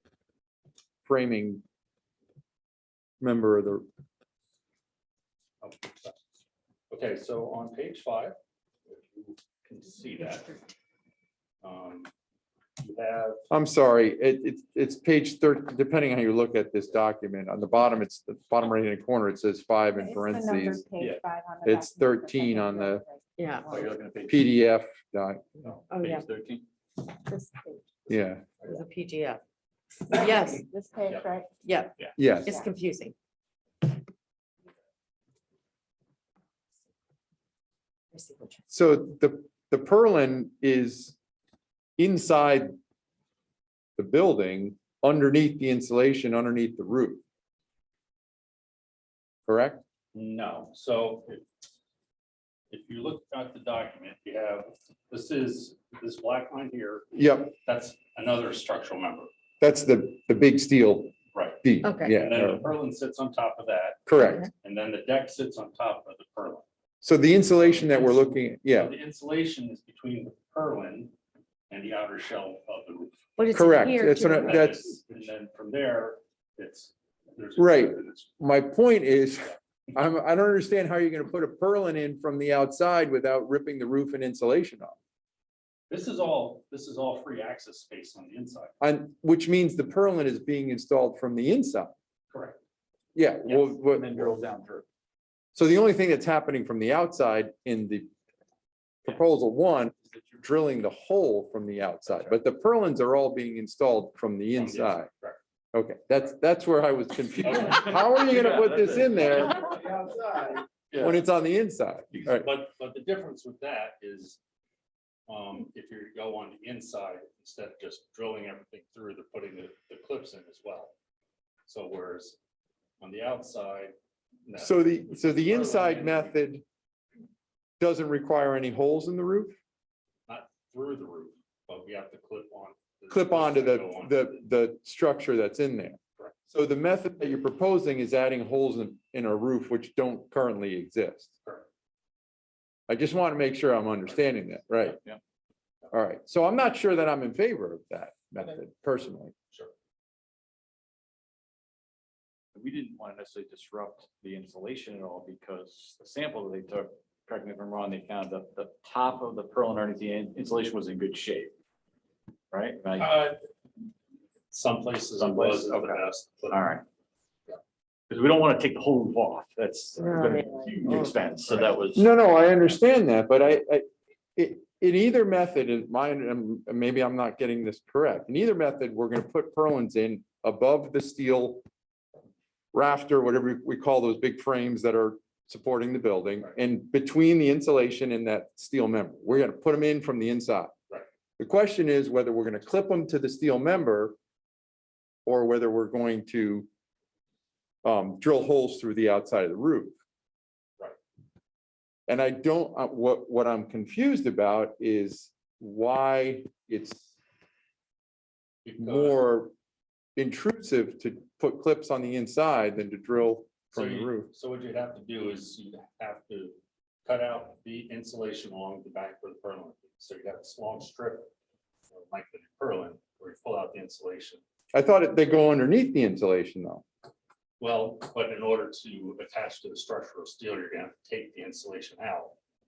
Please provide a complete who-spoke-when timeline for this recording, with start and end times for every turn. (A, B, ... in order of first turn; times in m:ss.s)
0:01.0-0:01.6 A
0:03.2-0:03.8 A
0:05.6-0:06.2 B
0:06.9-0:08.3 B
0:08.8-0:10.6 B
0:11.6-0:12.1 B
0:12.8-0:13.4 B
0:13.5-0:20.8 A
0:19.9-0:23.9 C
0:21.6-0:23.0 A
0:23.4-0:23.8 D
0:23.7-0:24.5 E
0:24.3-0:25.7 A
0:25.6-0:26.6 E
0:25.9-0:26.2 D
0:27.3-0:27.9 C
0:28.1-0:28.4 A
0:28.6-0:29.4 D
0:30.1-0:31.6 C
0:30.1-0:30.6 D
0:31.6-0:33.1 D
0:32.2-0:32.6 A
0:38.1-0:38.6 D
0:38.7-0:41.2 A
0:42.0-0:42.7 A
0:44.0-0:47.2 A
0:49.5-0:49.8 A
0:50.1-0:51.4 B
0:52.7-0:59.3 B
0:57.1-0:57.5 A
0:59.6-1:02.6 A
1:01.3-1:06.6 B
1:01.8-1:02.1 D
1:04.1-1:04.5 A
1:04.2-1:04.4 D
1:07.0-1:08.9 A
1:07.4-1:11.1 B
1:11.7-1:13.2 B
1:13.4-1:14.7 D
1:13.5-1:15.0 A
1:13.7-1:18.3 B
1:17.6-1:25.0 A
1:25.9-1:28.7 B
1:28.8-1:31.9 A
1:32.3-1:32.6 B
1:33.1-1:34.3 A
1:33.4-1:34.8 E
1:35.5-1:38.1 A
1:39.0-1:45.1 A
1:44.5-1:45.4 B
1:45.7-1:49.7 A
1:47.4-1:49.8 B
1:48.3-1:50.6 E
1:51.0-1:52.5 A
1:52.3-1:54.4 B
1:55.3-2:00.9 B
2:01.7-2:02.4 B
2:03.0-2:03.9 B
2:04.4-2:06.4 B
2:04.6-2:06.6 A
2:07.8-2:09.6 A
2:10.3-2:14.4 B
2:13.1-2:16.0 A
2:16.5-2:21.3 A
2:22.9-2:25.0 A
2:25.9-2:29.3 A
2:32.5-2:41.5 E
2:42.5-2:43.2 E
2:43.0-2:43.4 B
2:44.5-2:46.6 B
2:45.2-2:46.8 E
2:48.1-2:52.2 E
2:50.0-2:51.1 D
2:51.5-2:51.8 B
2:51.9-3:01.6 A
3:02.7-3:10.7 A
3:11.4-3:14.2 A
3:15.2-3:16.7 A
3:17.8-3:19.9 A
3:22.1-3:27.1 A
3:28.6-3:29.2 B
3:28.8-3:29.5 A
3:30.2-3:34.3 A
3:33.7-3:41.3 B
3:41.9-3:44.4 B
3:44.7-3:46.8 A
3:47.6-3:52.3 B